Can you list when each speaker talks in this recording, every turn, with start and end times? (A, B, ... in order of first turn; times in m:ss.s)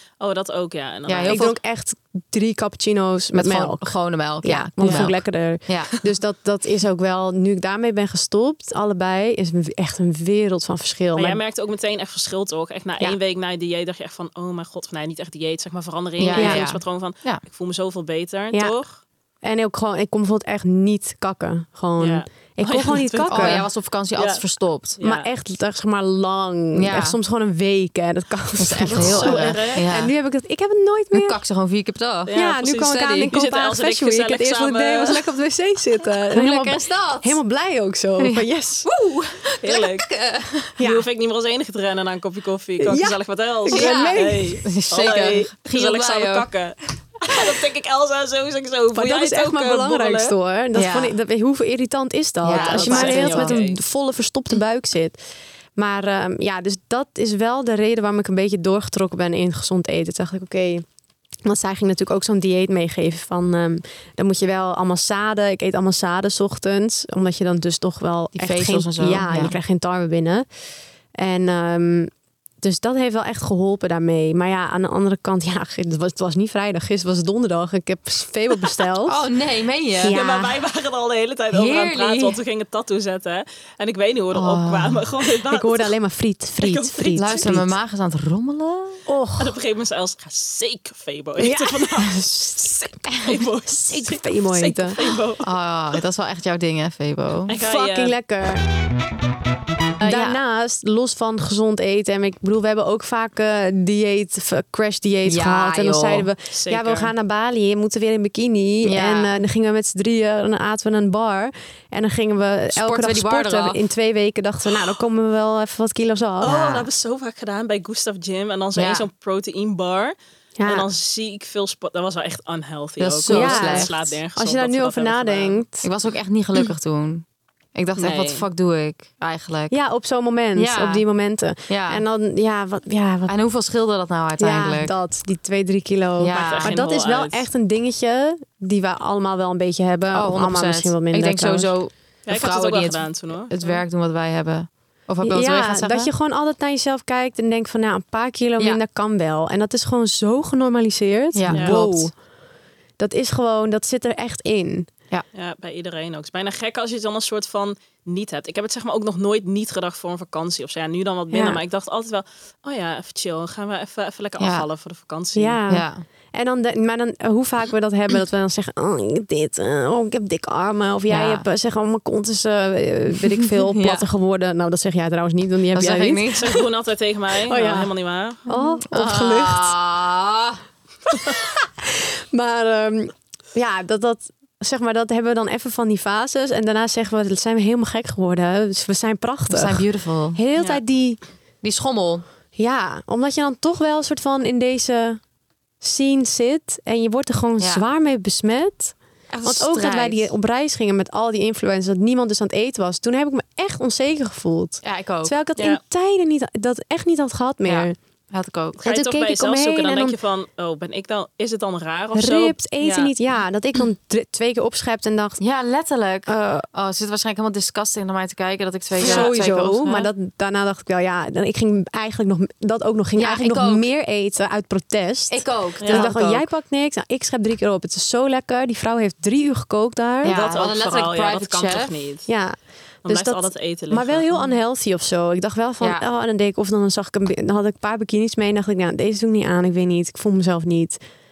0:00.2-0:01.6 A
0:01.1-0:01.5 B
0:01.3-0:11.4 C
0:03.3-0:05.9 B
0:04.8-0:05.1 A
0:11.2-0:19.0 A
0:16.2-0:17.4 B
0:16.4-0:16.7 C
0:19.4-0:23.6 C
0:22.0-0:23.6 A
0:23.3-0:25.0 B
0:24.2-0:24.4 A
0:25.0-0:25.3 A
0:25.0-0:31.4 C
0:26.7-0:27.2 B
0:28.6-0:30.1 B
0:28.9-0:29.9 A
0:31.1-0:32.4 B
0:32.3-0:35.3 A
0:32.3-0:38.9 C
0:36.3-0:37.4 B
0:38.2-0:40.8 B
0:39.6-0:40.1 A
0:40.8-0:41.1 C
0:40.8-0:50.4 A
0:42.8-0:44.6 C
0:43.7-0:46.5 B
0:48.9-0:55.2 C
0:50.7-0:51.2 B
0:52.4-0:53.6 B
0:52.5-0:53.8 A
0:55.8-1:00.8 C
1:01.4-1:10.5 C
1:08.4-1:09.6 B
1:11.2-1:12.1 C
1:12.6-1:19.3 C
1:19.0-1:20.2 B
1:20.0-1:20.6 C
1:20.1-1:25.9 A
1:21.5-1:22.4 B
1:24.3-1:25.1 B
1:25.5-1:27.7 C
1:26.6-1:27.6 A
1:27.2-1:29.0 B
1:29.1-1:29.6 C
1:29.4-1:35.5 A
1:31.4-1:33.0 C
1:33.7-1:35.0 C
1:35.4-1:37.6 B
1:37.5-1:38.2 A
1:37.6-1:38.6 C
1:40.0-1:56.5 C
1:40.0-1:40.4 B
1:45.2-1:46.3 B
1:46.5-1:47.1 A
1:48.8-1:49.4 B
1:52.7-1:53.8 B
1:56.4-2:05.6 A
1:56.4-1:56.9 B
1:58.8-1:59.1 B
2:00.6-2:00.9 C
2:03.0-2:03.9 B
2:03.3-2:05.9 C
2:05.8-2:09.8 B
2:08.0-2:08.4 A
2:09.7-2:13.3 C
2:10.6-2:11.0 B
2:11.7-2:12.0 B
2:13.3-2:15.0 B
2:14.4-2:21.7 C
2:16.2-2:16.8 B
2:16.3-2:17.5 A
2:20.1-2:26.1 B
2:22.3-2:23.8 A
2:25.2-2:32.1 C
2:31.3-2:32.1 B
2:31.5-2:31.8 A
2:33.0-2:34.9 C
2:35.3-2:45.6 A
2:41.3-2:41.6 C
2:44.4-2:44.7 B
2:45.4-2:56.5 C
2:45.7-2:46.0 B
2:51.1-2:51.5 B
2:53.6-2:54.1 B
2:55.7-2:56.6 B
2:56.4-2:58.4 A
2:57.5-2:57.9 C
2:58.5-2:59.7 C
2:58.5-3:00.6 B
3:01.2-3:11.2 C
3:09.5-3:10.4 B
3:10.6-3:10.8 A
3:11.6-3:12.2 B
3:12.6-3:15.2 C
3:15.8-3:28.0 C
3:17.6-3:17.8 B
3:19.3-3:20.3 B
3:24.8-3:25.4 B
3:27.6-3:28.8 B
3:28.8-3:33.1 A
3:28.8-3:30.2 C
3:32.2-3:35.4 C
3:35.4-3:40.1 B
3:36.3-3:36.6 C
3:39.0-3:50.4 C
3:39.0-3:39.3 A
3:43.2-3:43.9 B
3:45.3-3:46.5 B
3:45.8-3:46.1 A
3:50.2-3:51.9 B
3:50.2-3:52.3 A
3:52.3-4:01.0 C
3:53.0-3:54.4 A
3:55.8-3:56.0 B